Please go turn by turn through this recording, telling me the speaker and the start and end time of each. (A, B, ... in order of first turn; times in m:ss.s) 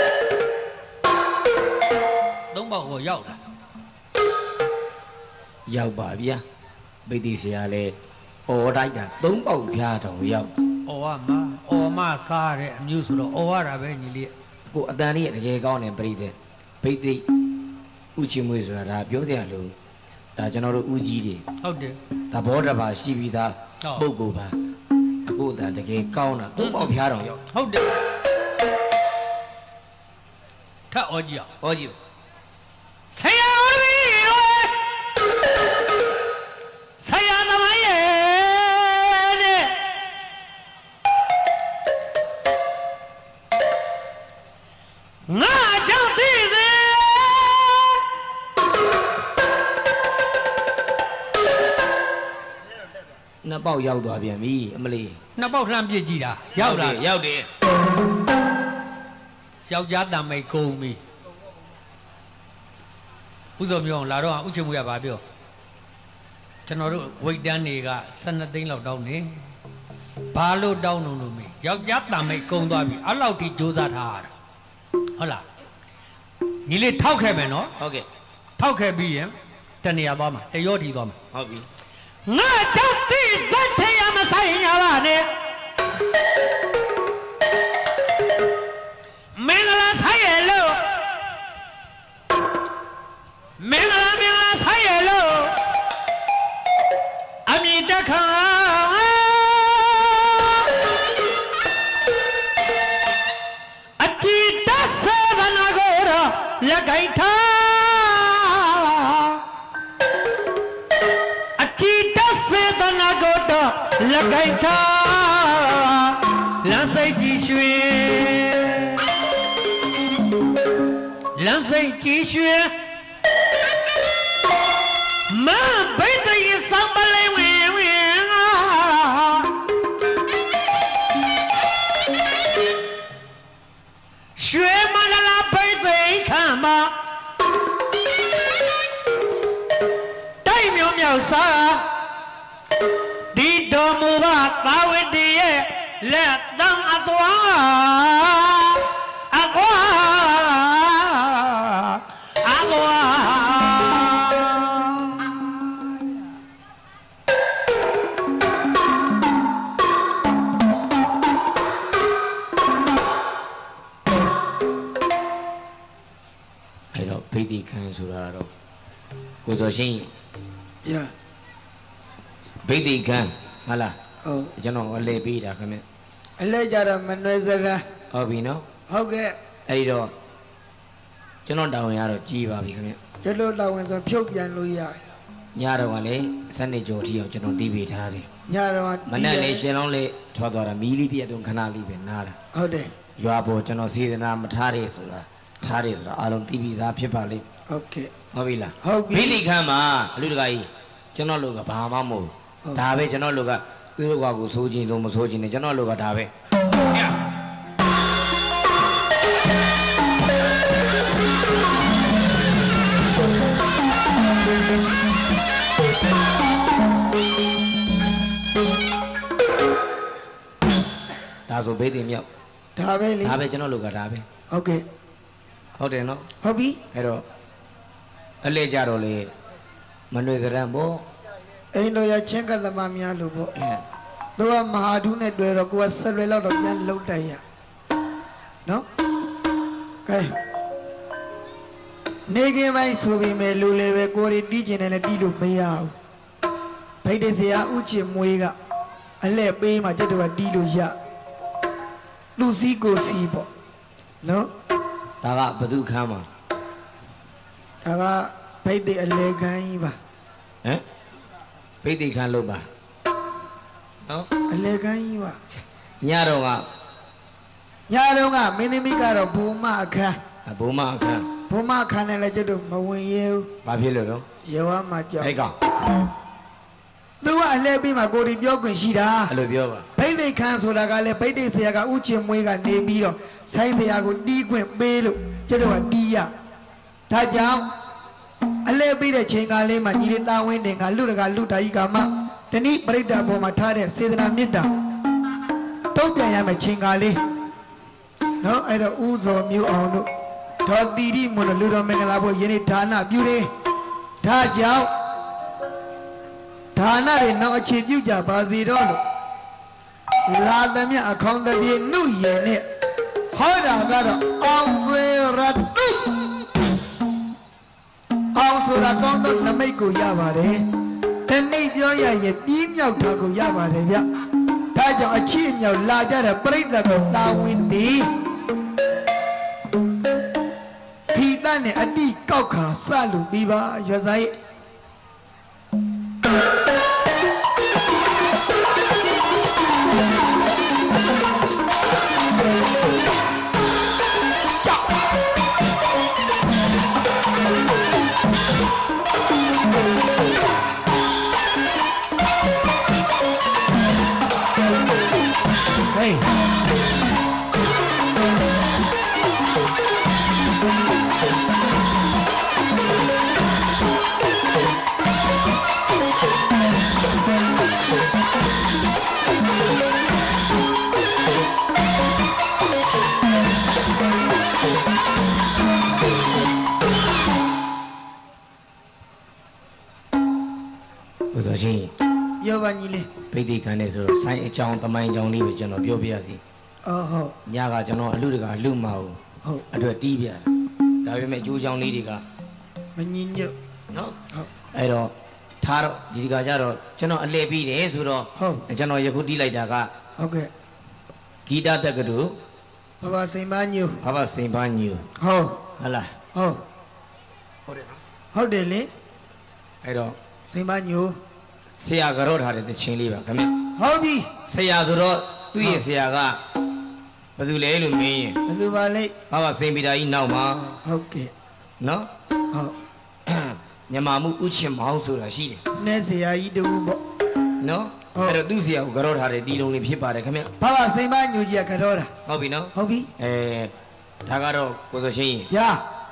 0:02.5-0:03.4 A
0:05.7-0:06.4 B
0:07.1-0:08.0 B
0:08.5-0:10.6 B
0:10.8-0:14.3 A
0:14.7-0:17.2 B
0:18.2-0:19.7 B
0:20.4-0:21.4 B
0:21.6-0:22.0 A
0:22.3-0:24.6 B
0:25.2-0:27.4 B
0:27.5-0:27.9 A
0:30.9-0:31.5 A
0:31.6-0:31.9 B
0:33.1-0:34.8 A
0:37.0-0:39.8 A
0:45.3-0:48.0 A
0:53.4-0:55.2 B
0:55.4-0:57.0 A
0:56.5-0:57.5 B
0:59.7-1:01.0 A
1:03.6-1:05.2 A
1:06.6-1:09.4 A
1:10.3-1:14.3 A
1:15.2-1:15.4 A
1:16.6-1:17.7 A
1:17.8-1:18.0 B
1:18.6-1:21.2 A
1:21.3-1:21.6 B
1:22.2-1:25.3 A
1:29.4-1:31.0 A
1:33.6-1:35.6 A
1:37.5-1:40.7 A
1:44.0-1:49.4 A
1:51.6-1:59.1 A
2:01.4-2:02.7 A
2:05.3-2:09.5 A
2:14.4-2:16.9 A
2:20.4-2:21.8 A
2:23.3-2:35.3 A
2:46.9-2:48.5 B
2:49.4-2:50.1 B
2:50.8-2:51.1 C
2:52.6-2:53.9 B
2:54.2-2:54.5 C
2:54.6-2:55.8 B
2:56.4-2:57.8 C
2:58.1-2:58.6 B
2:58.9-2:59.4 C
2:59.7-3:00.1 B
3:01.4-3:03.0 B
3:03.2-3:05.0 C
3:05.5-3:08.3 B
3:08.5-3:09.6 C
3:09.1-3:12.3 B
3:12.5-3:12.9 C
3:13.2-3:17.4 B
3:17.7-3:18.1 C
3:18.3-3:26.3 B
3:18.8-3:19.4 C
3:41.5-3:42.2 B
3:42.8-3:43.4 C
3:43.2-3:44.2 B
3:44.5-3:44.8 C
3:45.8-3:46.3 B
3:46.4-3:46.8 C
3:46.9-3:47.2 B
3:48.4-3:49.3 B
3:50.1-3:51.0 B
3:51.7-3:53.5 C
3:53.6-3:53.8 B
3:54.4-3:57.4 C
4:00.0-4:00.3 C
4:02.3-4:05.9 C
4:07.0-4:08.5 C
4:09.2-4:10.9 C
4:12.4-4:13.5 C
4:14.2-4:14.5 C
4:15.2-4:16.3 B
4:17.8-4:20.0 C
4:21.8-4:22.6 B
4:24.5-4:25.4 C
4:26.0-4:26.6 B
4:27.9-4:30.2 C
4:30.4-4:31.3 B
4:31.5-4:33.5 C
4:33.6-4:34.2 B
4:34.4-4:35.3 C
4:35.2-4:35.5 B
4:37.2-4:39.3 C
4:39.3-4:39.8 B
4:40.0-4:46.3 C
4:47.1-4:47.7 C
4:48.6-4:54.7 C
4:55.9-4:57.2 C
4:58.4-5:00.1 C
5:00.6-5:03.5 C
5:04.2-5:04.9 C
5:06.7-5:09.0 C
5:10.3-5:12.6 C
5:13.3-5:16.3 C
5:18.3-5:20.6 C
5:21.3-5:24.0 C
5:24.7-5:28.1 C
5:31.1-5:34.3 C
5:55.9-5:56.3 C
6:21.3-6:21.9 B
6:22.4-6:23.1 C
6:23.3-6:26.4 B
6:26.8-6:27.3 C
6:27.4-6:29.2 B
6:29.7-6:30.5 B
6:31.0-6:32.2 B
6:33.0-6:33.5 C
6:33.9-6:34.2 B
6:34.7-6:39.9 B
6:38.4-6:38.6 C
6:40.2-6:40.5 C
6:41.4-6:42.4 B
6:43.0-6:44.0 C
6:44.0-6:45.1 B
6:45.2-6:45.6 C
6:45.8-6:46.1 B
6:46.3-6:46.6 C
6:47.7-6:48.0 B
6:48.3-6:48.9 C
6:49.8-6:50.2 B
6:50.5-6:51.2 C
6:51.8-6:53.5 B
6:53.8-6:54.3 C
6:54.5-6:56.4 B
6:57.4-6:58.4 B
6:58.5-6:59.1 C
6:59.3-7:00.8 B
7:00.8-7:01.3 C
7:01.8-7:02.1 B
7:03.3-7:05.6 B
7:05.8-7:07.0 C
7:07.6-7:10.5 B
7:08.1-7:08.4 C
7:10.6-7:12.1 C
7:12.2-7:13.7 B
7:12.7-7:13.1 C
7:14.2-7:15.5 B
7:15.5-7:15.8 C